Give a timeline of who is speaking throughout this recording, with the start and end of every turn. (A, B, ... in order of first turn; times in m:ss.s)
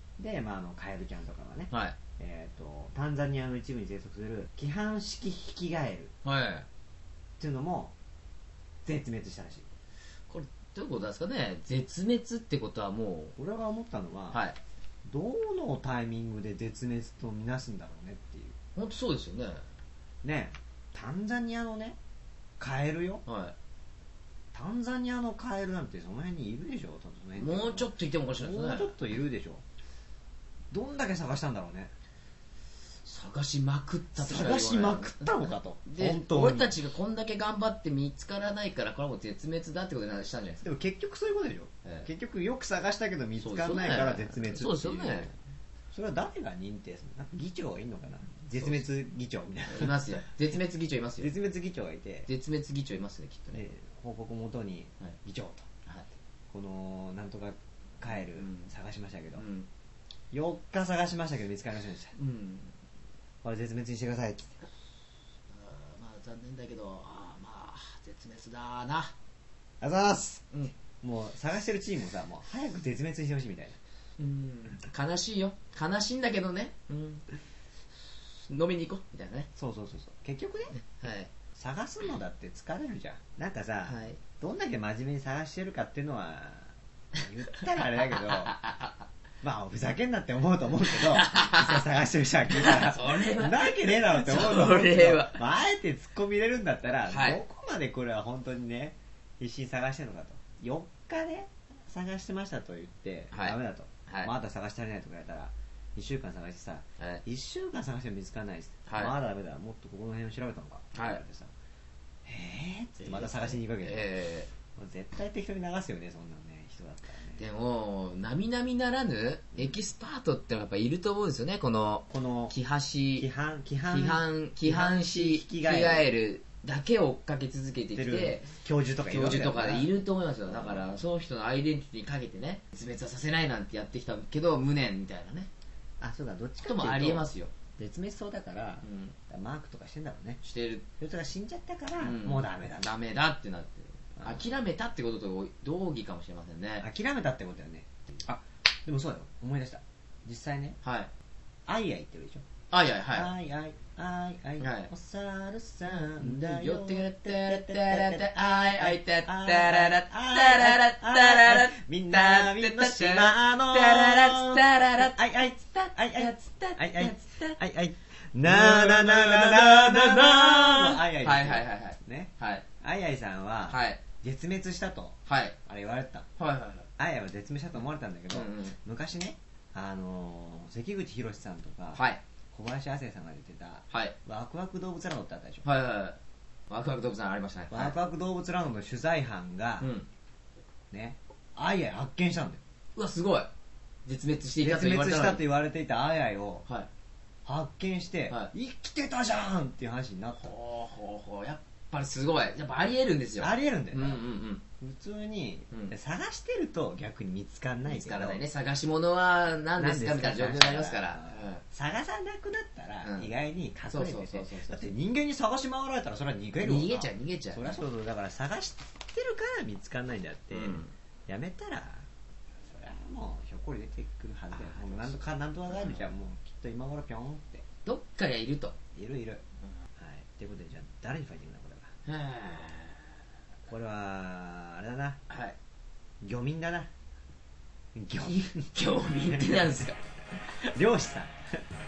0:00.2-0:06.1 A
0:01.7-0:02.0 B
0:06.2-0:06.7 B
0:07.4-0:07.9 A
0:08.8-0:09.7 A
0:10.3-0:13.4 B
0:13.4-0:14.4 A
0:14.3-0:14.6 B
0:15.0-0:18.6 A
0:18.8-0:19.7 B
0:20.2-0:22.0 A
0:22.6-0:23.2 A
0:23.3-0:23.5 B
0:24.5-0:29.6 A
0:27.4-0:29.0 B
0:30.7-0:31.9 A
0:33.0-0:40.6 B
0:34.2-0:36.7 A
0:40.6-0:45.3 A
0:43.4-0:45.3 B
0:45.9-0:50.2 A
0:48.5-0:48.8 B
0:49.7-0:51.3 B
0:51.2-0:52.3 A
0:52.3-0:53.6 B
0:53.5-0:55.7 A
0:56.5-0:59.4 A
0:58.1-0:58.7 B
0:59.4-0:59.7 B
1:00.3-1:02.2 A
1:02.2-1:02.8 B
1:03.4-1:04.6 A
1:05.5-1:09.2 B
1:09.8-1:10.5 A
1:11.0-1:13.8 A
1:14.2-1:17.3 B
1:18.2-1:19.5 B
1:19.6-1:20.8 A
1:20.8-1:21.3 B
1:21.6-1:28.6 A
1:23.9-1:24.2 B
1:28.2-1:29.0 B
1:29.4-1:51.5 A
1:30.9-1:31.8 B
1:32.5-1:35.4 B
1:37.1-1:37.4 B
1:44.1-1:44.3 B
1:48.9-1:49.2 B
1:51.0-1:51.2 B
1:52.2-1:54.1 A
1:53.0-1:54.5 B
1:54.8-1:57.5 A
1:57.4-2:03.3 B
2:02.1-2:02.6 A
2:03.2-2:06.1 A
2:03.8-2:08.5 B
2:08.0-2:09.9 A
2:09.1-2:15.5 B
2:10.4-2:10.9 A
2:16.0-2:20.4 A
2:16.6-2:17.5 B
2:18.8-2:19.2 B
2:20.4-2:20.8 B
2:21.0-2:22.9 A
2:22.0-2:26.8 B
2:24.2-2:24.5 A
2:26.8-2:27.9 A
2:28.9-2:30.8 A
2:30.8-2:31.1 B
2:31.7-2:32.5 A
2:32.7-2:33.3 B
2:33.1-2:56.3 A
2:34.6-2:34.9 B
2:36.2-2:45.2 B
2:45.7-2:47.6 B
2:48.4-2:52.6 B
2:53.7-2:54.0 B
2:55.3-2:55.6 B
2:56.4-2:56.9 B
2:57.0-3:05.7 A
2:58.3-2:58.8 B
3:01.9-3:02.2 B
3:05.6-3:08.0 B
3:07.7-3:09.9 A
3:09.8-3:10.1 B
3:10.9-3:12.6 A
3:13.0-3:13.5 B
3:14.1-3:15.4 B
3:14.6-3:16.7 A
3:17.4-3:20.5 A
3:20.4-3:24.6 B
3:23.4-3:24.2 A
3:24.8-3:28.4 A
3:27.9-3:31.6 B
3:29.8-3:42.1 A
3:33.0-3:33.3 B
3:33.9-3:34.8 B
3:36.6-3:37.8 B
3:40.5-3:40.9 B
3:42.6-3:47.6 A
3:44.5-3:46.0 B
3:47.8-3:48.8 B
3:49.0-3:49.4 A
3:50.0-3:51.9 A
3:52.1-3:53.0 B
3:53.7-3:55.2 A
3:55.3-3:55.6 B
3:56.2-3:56.9 A
3:57.9-4:00.0 A
3:58.3-4:00.0 B
4:00.6-4:01.6 A